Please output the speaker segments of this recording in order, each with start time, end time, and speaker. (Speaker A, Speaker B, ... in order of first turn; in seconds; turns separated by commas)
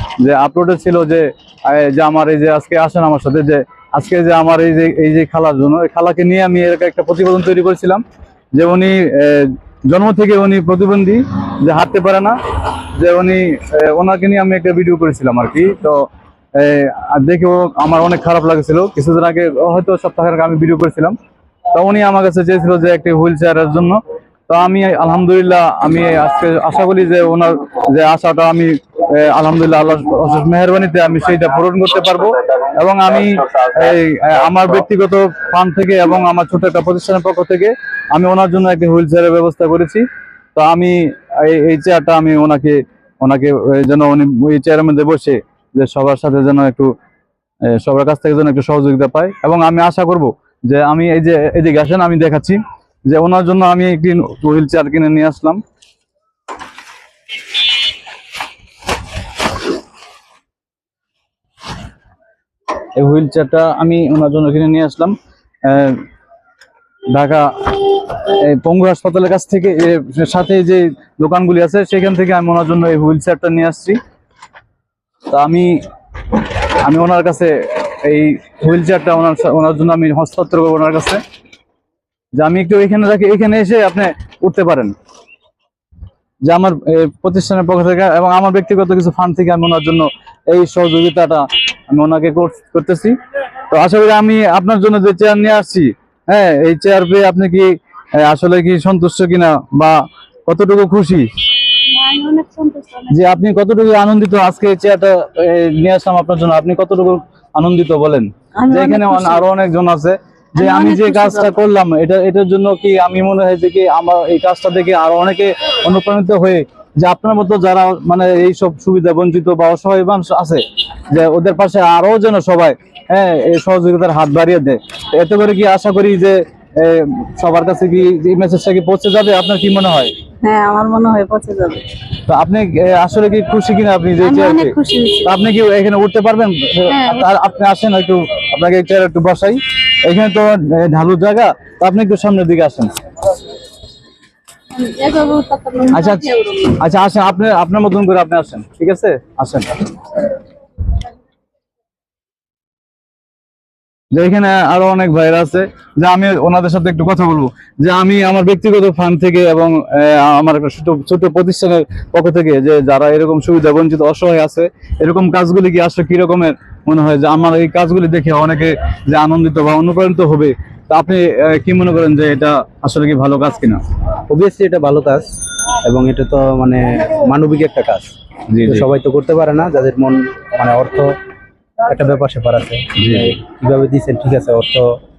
Speaker A: 0.2-8.0, Speaker A: 8.5-12.4, Speaker A: 12.9-21.1, Speaker A: 21.7-40.0, Speaker A: 40.5-46.9, Speaker A: 47.6-55.6, Speaker A: 62.9-66.0, Speaker A: 67.1-74.0, Speaker A: 75.3-75.8, Speaker A: 76.8-81.2, Speaker A: 82.4-84.9, Speaker A: 86.4-93.1, Speaker A: 93.7-99.9, Speaker A: 100.5-101.3, Speaker B: 101.9-103.1, Speaker A: 103.1-130.1, Speaker B: 108.6-109.5, Speaker B: 110.6-111.5, Speaker B: 130.4-131.8, Speaker A: 132.3-142.9, Speaker B: 134.2-135.3, Speaker B: 136.9-137.3, Speaker B: 144.7-146.7, Speaker A: 145.9-149.9, Speaker A: 154.1-173.8, Speaker C: 174.3-175.3, Speaker C: 175.8-178.1, Speaker A: 178.5-178.9, Speaker C: 178.6-181.1, Speaker C: 181.8-184.9, Speaker A: 182.9-183.3